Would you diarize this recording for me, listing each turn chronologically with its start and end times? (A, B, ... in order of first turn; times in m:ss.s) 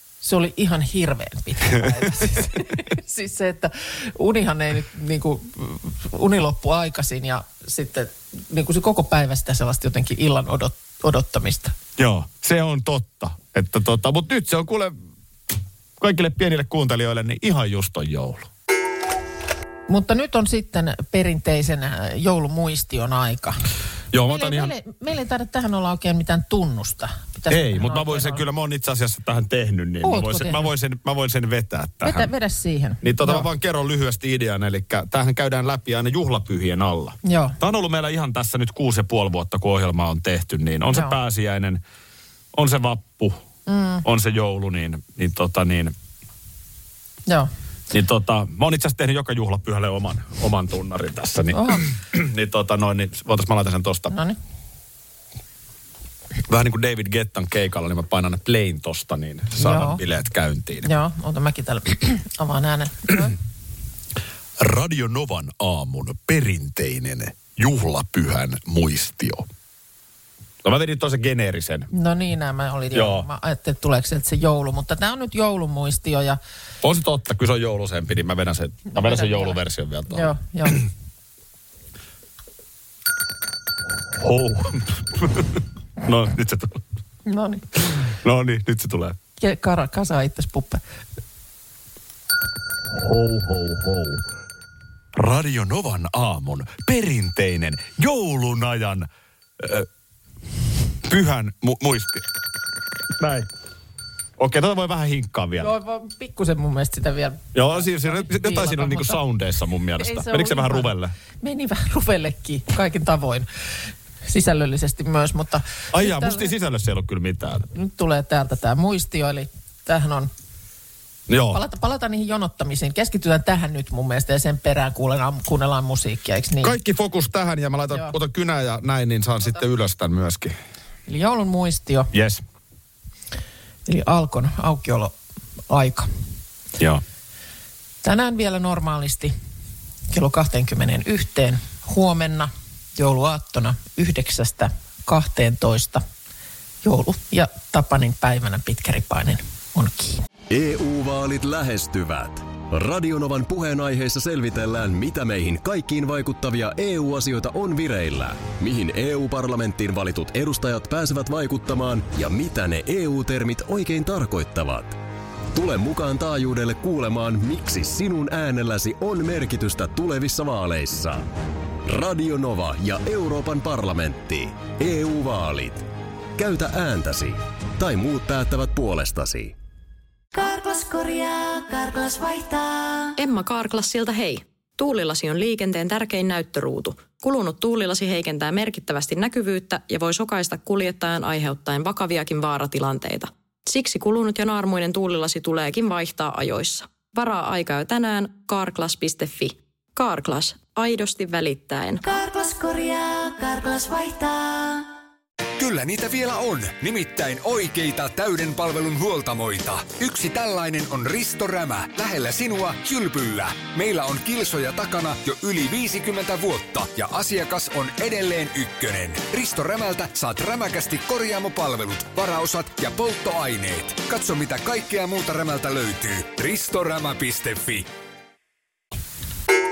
0:00.2-0:11.7 A
0:01.8-0:02.1 B
0:12.0-0:14.9 B
0:16.0-0:18.5 B
0:19.9-0:23.6 A
0:24.1-0:24.7 B
0:24.2-0:28.4 A
0:27.5-0:32.3 B
0:30.0-0:30.7 A
0:32.0-0:33.5 A
0:33.0-0:41.8 B
0:37.2-0:37.6 A
0:40.9-0:41.2 A
0:42.5-0:43.4 B
0:43.7-0:44.0 A
0:44.0-0:45.9 B
0:47.9-0:54.1 B
0:51.5-0:51.8 A
0:54.1-0:54.4 A
0:56.5-1:00.9 B
0:59.6-1:00.0 A
1:00.8-1:03.4 A
1:04.6-1:09.5 B
1:10.6-1:11.9 B
1:11.9-1:16.4 A
1:12.9-1:13.3 B
1:16.8-1:20.8 B
1:18.9-1:19.6 A
1:20.1-1:20.8 A
1:24.1-1:26.8 B
1:27.2-1:27.6 A
1:28.1-1:29.2 B
1:29.4-1:30.8 A
1:32.9-1:34.2 B
1:35.1-1:39.1 B
1:39.6-1:39.9 B
1:41.0-1:42.2 B
1:43.2-1:43.5 B
1:44.4-1:45.7 B
1:45.6-1:49.2 A
1:47.5-1:51.1 B
1:50.0-1:53.5 A
1:54.3-1:56.5 A
1:55.9-1:57.7 B
1:57.7-2:00.3 A
2:01.3-2:01.6 B
2:01.5-2:06.7 A
2:06.6-2:10.5 B
2:11.1-2:12.1 A
2:12.1-2:12.4 B
2:13.9-2:15.1 A
2:15.7-2:16.1 A
2:18.0-2:19.3 A
2:20.1-2:26.0 A
2:26.8-2:30.2 A
2:30.5-2:45.0 C
2:45.5-2:51.3 C
2:51.9-2:55.9 C
2:56.4-2:59.5 C
3:00.3-3:03.1 D
3:03.2-3:22.0 E
3:22.0-3:24.9 D
3:25.6-3:47.9 F